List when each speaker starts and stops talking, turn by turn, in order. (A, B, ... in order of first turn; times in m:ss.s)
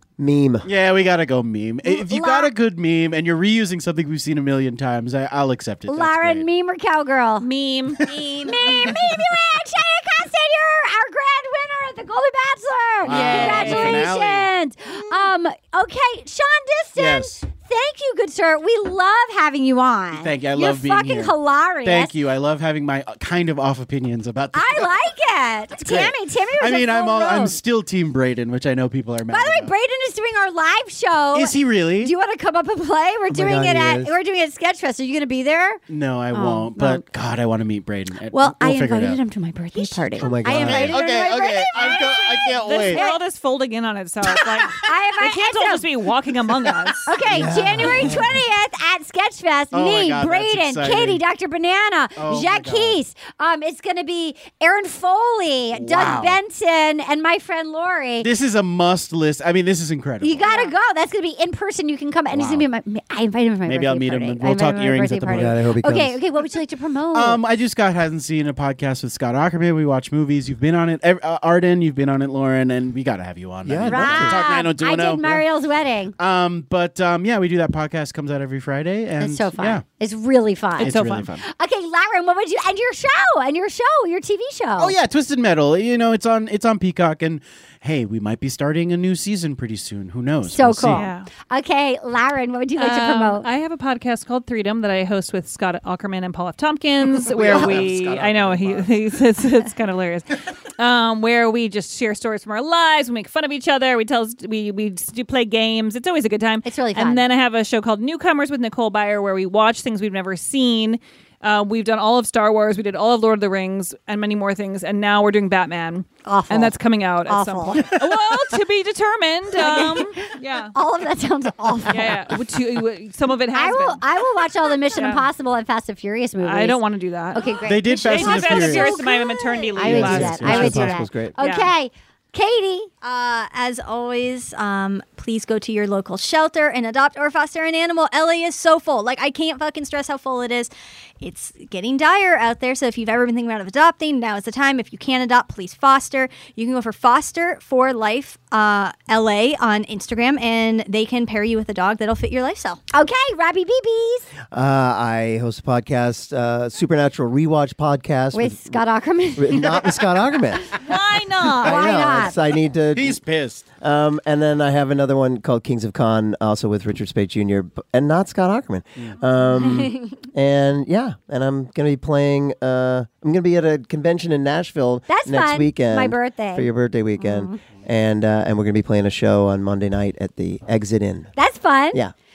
0:00.2-0:00.7 A
0:00.6-0:06.5 B
0:01.8-0:02.5 C
0:05.9-0:07.5 C
0:07.4-0:08.1 D
0:08.0-0:22.2 C
0:08.8-0:09.1 B
0:13.0-0:14.5 B
0:13.1-0:14.1 E
0:13.2-0:14.1 D
0:17.0-0:17.4 B
0:20.1-0:24.9 B
0:24.5-0:27.6 C
0:25.8-0:29.7 B
0:29.3-0:37.0 C
0:31.3-0:32.1 B
0:33.3-0:34.2 A
0:35.9-0:39.2 B
0:38.3-0:43.2 C
0:39.8-0:40.3 E
0:40.2-0:41.0 A
0:40.4-0:43.0 B
0:41.9-0:47.1 D
0:44.7-0:45.9 C
0:47.1-0:58.3 C
0:47.3-0:48.3 A
0:47.9-0:48.4 B
0:49.7-0:51.2 B
0:52.2-0:53.0 B
0:55.7-0:56.4 B
0:58.2-1:00.7 B
1:00.2-1:07.4 C
1:02.3-1:02.7 B
1:03.7-1:05.6 B
1:05.3-1:06.2 A
1:07.1-1:15.4 B
1:13.6-1:14.5 A
1:13.9-1:16.2 C
1:16.2-1:19.8 B
1:19.2-1:25.0 C
1:20.8-1:21.4 B
1:20.8-1:21.3 D
1:24.8-1:31.1 B
1:30.5-1:33.5 C
1:30.9-1:31.3 D
1:32.8-2:00.7 D
1:37.1-1:38.9 B
1:46.6-1:47.2 C
1:56.2-1:58.0 C
1:59.5-2:02.4 C
2:01.9-2:04.0 D
2:03.5-2:06.8 C
2:04.9-2:05.3 D
2:06.4-2:11.7 D
2:07.3-2:12.9 C
2:07.6-2:09.1 B
2:09.8-2:11.4 A
2:13.0-2:32.8 E
2:32.9-2:34.3 C
2:34.5-2:38.8 A
2:38.3-2:39.8 C
2:39.4-2:40.7 A
2:40.8-2:41.8 D
2:41.6-2:42.4 C
2:41.6-2:43.2 A
2:42.0-2:42.3 B
2:42.9-2:43.7 B
2:43.7-3:01.3 A
2:55.1-2:57.6 C
3:01.4-3:02.0 C